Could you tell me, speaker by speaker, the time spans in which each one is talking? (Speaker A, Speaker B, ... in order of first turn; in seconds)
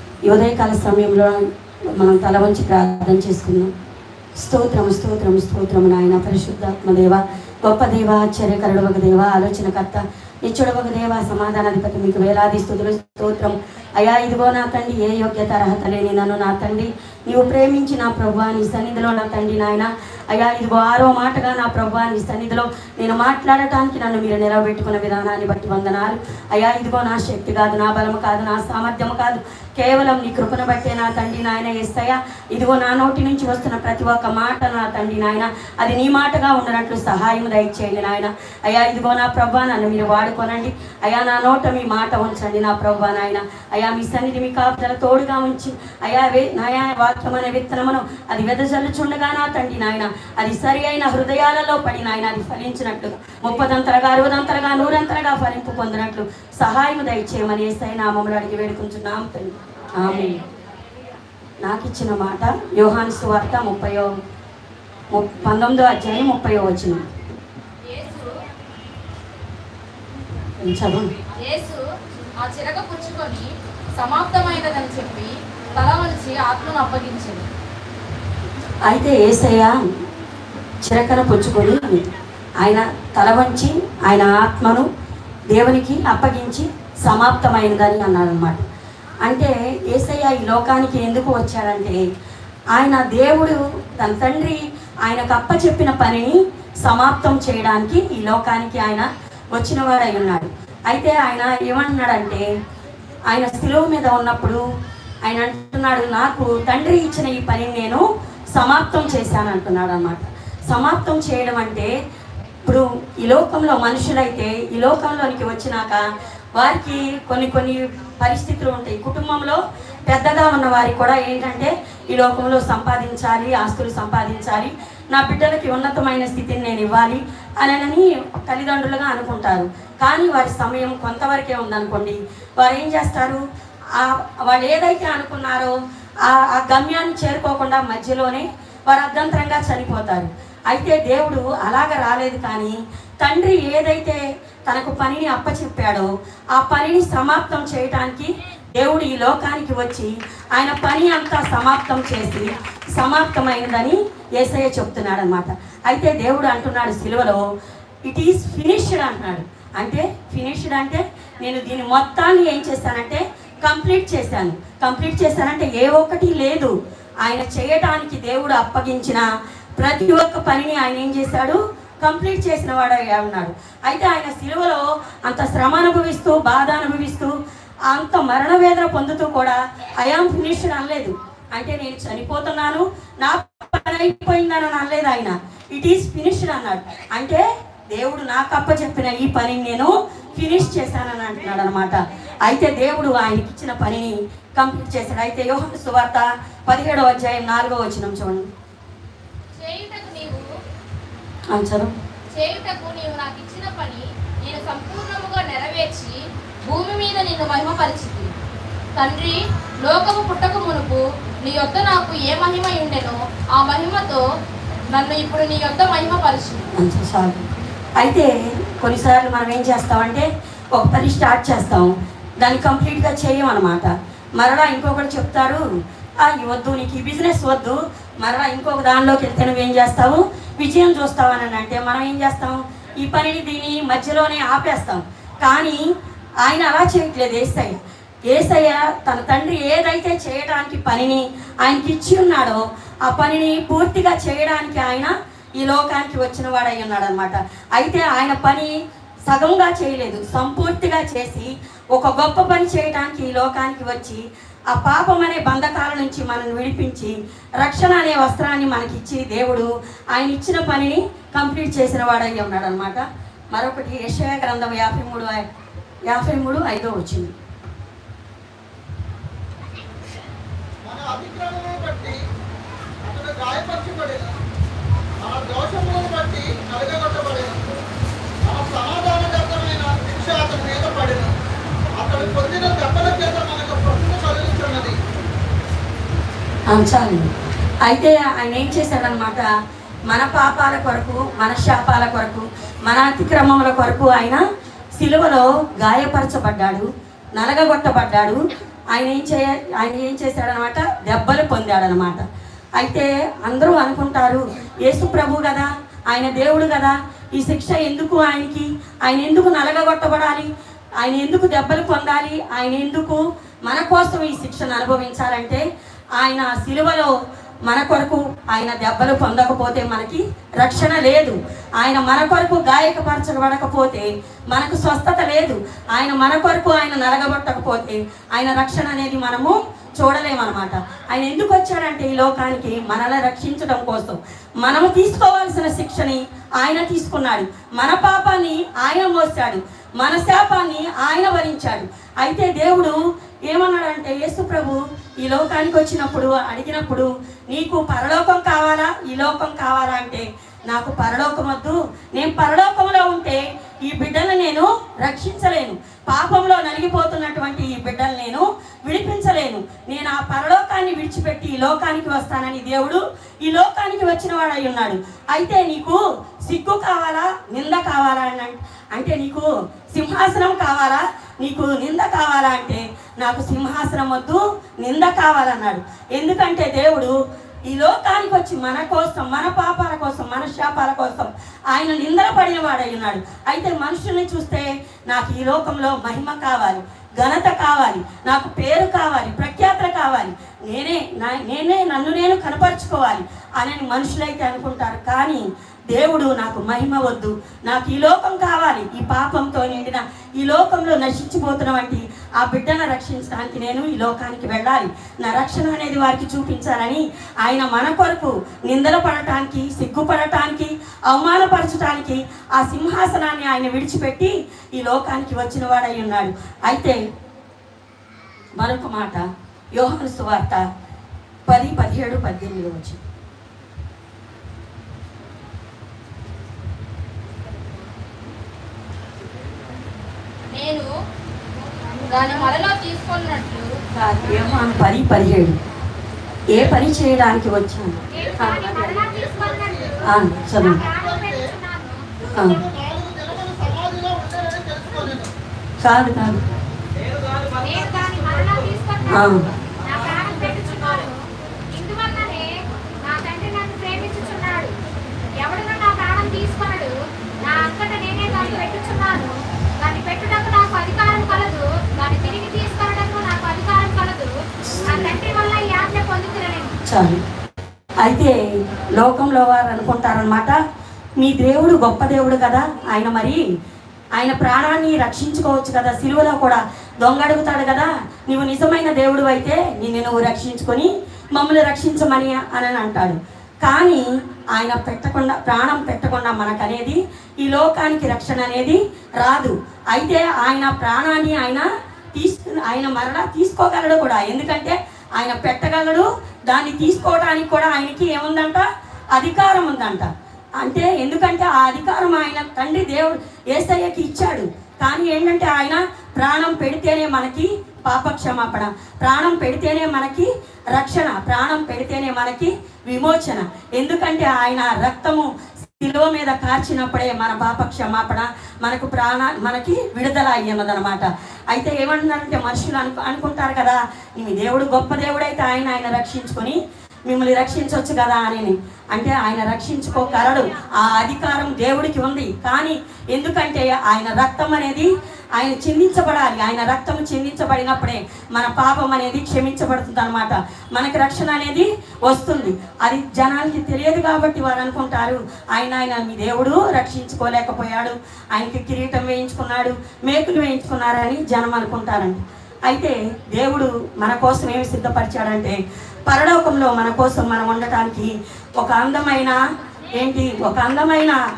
Speaker A: 0.2-3.7, 4.4-60.4, 61.6-64.1, 65.1-67.0, 70.6-71.1, 78.8-79.7, 80.8-82.0, 82.6-84.9, 85.5-88.6, 89.2-92.0, 92.7-102.5, 103.3-104.6, 105.2-111.9, 112.6-116.0, 116.5-133.4, 133.9-157.4, 158.0-166.7, 167.2-169.2, 169.8-198.5, 201.5-201.9, 216.7-217.5, 218.0-225.6, 226.2-235.8, 236.4-237.8, 238.3-248.7, 249.3-265.4, 266.1-267.3, 286.7-287.3, 287.8-289.5, 290.1-294.4, 295.0-298.4, 298.9-302.2, 302.8-310.5, 311.0-315.6, 316.1-317.1, 317.6-377.1, 377.7-417.0, 418.6-420.6, 421.5-423.0, 433.9-435.6, 436.5-438.9, 440.0-440.8, 442.3-442.6, 445.8-446.4, 449.1-449.5, 466.8-467.2, 468.0-470.6, 471.2-473.4, 474.2-484.0, 484.5-559.4, 559.9-561.2
Speaker B: 67.9-68.3, 71.4-71.8, 72.4-77.5, 199.6-200.4, 202.3-208.3, 209.0-214.2, 214.9-216.7, 430.5-430.9, 432.0-433.8
Speaker C: 270.8-272.2, 273.0-274.4, 275.2-277.6, 278.4-281.3, 281.9-284.9, 439.0-440.0, 442.4-445.3
Speaker D: 438.1-442.0, 447.5-454.8, 455.4-466.8